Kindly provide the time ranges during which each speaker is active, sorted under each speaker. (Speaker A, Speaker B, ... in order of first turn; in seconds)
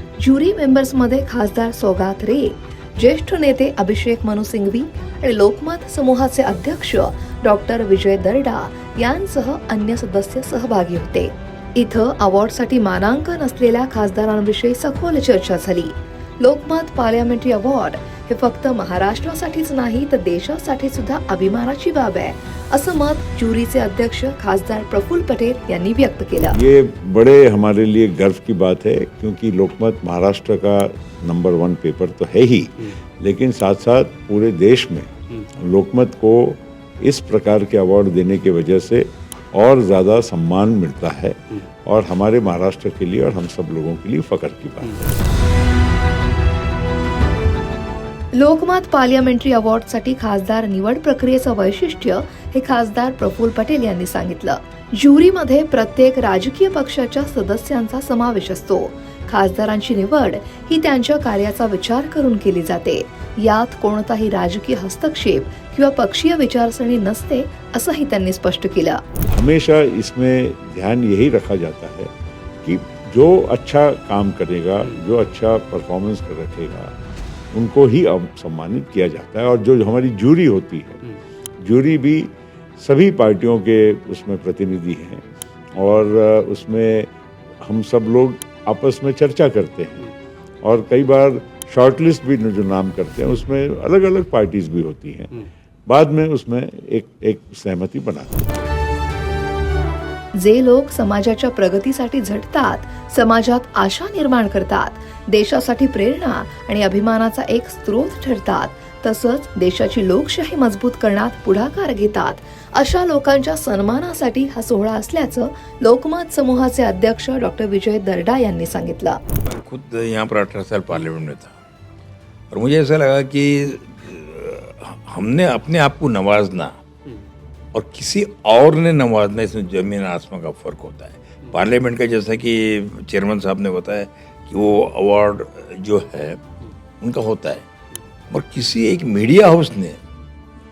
Speaker A: 0.2-26.6, 48.3-69.0, 100.3-119.2
Speaker B: 26.5-45.1, 69.3-72.1, 72.6-76.9, 77.5-81.0, 81.6-85.2, 85.8-90.1, 90.6-98.4
Speaker C: 119.4-121.5, 122.5-126.8, 127.7-136.4, 137.0-137.7, 138.3-140.0